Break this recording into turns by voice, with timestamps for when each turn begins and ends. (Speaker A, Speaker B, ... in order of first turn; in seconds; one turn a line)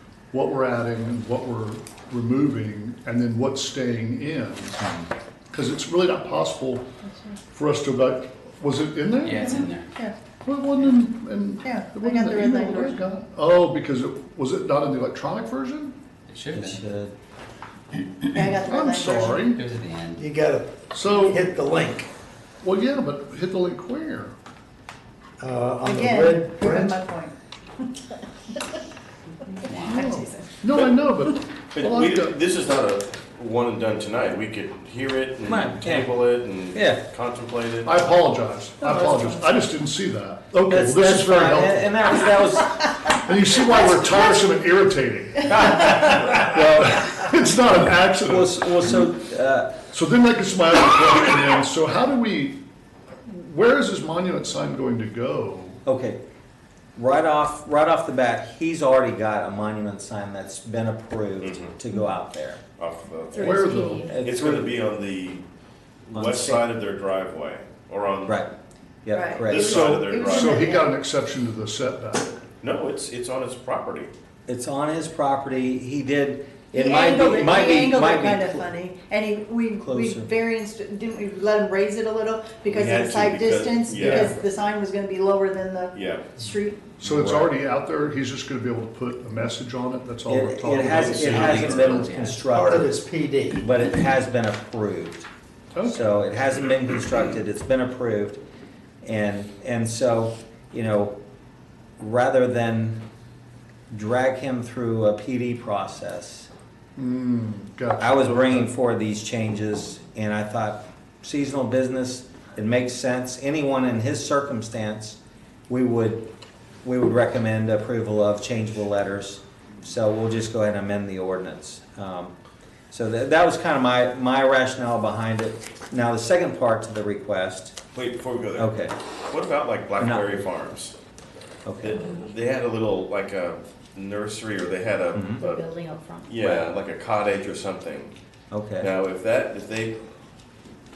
Speaker A: 0.3-4.9
Speaker A: 5.5-6.9
Speaker B: 7.0-7.4
Speaker A: 7.5-9.7
Speaker C: 9.2-9.9
Speaker B: 9.4-10.1
Speaker A: 10.4-16.0
Speaker B: 11.6-13.0
Speaker C: 16.3-16.8
Speaker D: 16.5-17.1
Speaker B: 18.3-19.5
Speaker A: 18.6-19.6
Speaker C: 19.5-20.2
Speaker E: 20.2-22.1
Speaker A: 20.9-21.7
Speaker A: 22.6-24.3
Speaker E: 25.4-27.0
Speaker B: 25.8-28.8
Speaker C: 29.4-30.1
Speaker B: 29.5-30.6
Speaker A: 29.8-32.4
Speaker F: 31.7-38.0
Speaker D: 35.5-36.1
Speaker D: 36.7-37.0
Speaker A: 37.8-41.9
Speaker B: 38.9-39.3
Speaker D: 40.7-43.2
Speaker A: 43.2-49.0
Speaker D: 48.2-49.8
Speaker A: 49.9-52.6
Speaker A: 53.3-55.8
Speaker D: 55.9-56.2
Speaker D: 57.0-62.6
Speaker F: 61.4-61.7
Speaker F: 62.8-63.6
Speaker B: 63.3-64.2
Speaker A: 63.4-64.1
Speaker D: 64.1-64.7
Speaker F: 64.2-65.4
Speaker F: 66.1-68.4
Speaker D: 66.1-66.6
Speaker D: 68.3-68.5
Speaker D: 69.0-70.0
Speaker B: 69.1-70.9
Speaker F: 69.4-70.7
Speaker A: 69.5-72.4
Speaker F: 72.6-74.1
Speaker D: 74.5-78.7
Speaker B: 76.7-86.9
Speaker D: 79.8-80.3
Speaker F: 82.7-84.3
Speaker F: 85.9-86.3
Speaker A: 87.0-92.1
Speaker D: 87.0-87.5
Speaker D: 90.3-93.0
Speaker F: 90.8-92.3
Speaker C: 91.3-92.3
Speaker E: 92.5-93.7
Speaker D: 93.5-95.3
Speaker A: 95.7-96.2
Speaker D: 95.8-98.4
Speaker D: 99.0-101.2
Speaker D: 102.0-103.0
Speaker D: 103.9-106.5
Speaker A: 107.0-108.7
Speaker D: 108.0-115.2
Speaker D: 115.7-116.3
Speaker D: 116.8-122.3
Speaker D: 122.9-127.8
Speaker F: 127.9-128.7
Speaker D: 128.6-128.9
Speaker F: 129.3-130.9
Speaker D: 131.7-132.1
Speaker F: 131.8-135.6
Speaker D: 135.1-135.4
Speaker B: 135.4-136.3
Speaker F: 136.2-138.1
Speaker D: 136.4-136.7
Speaker D: 138.5-138.9
Speaker F: 138.8-140.0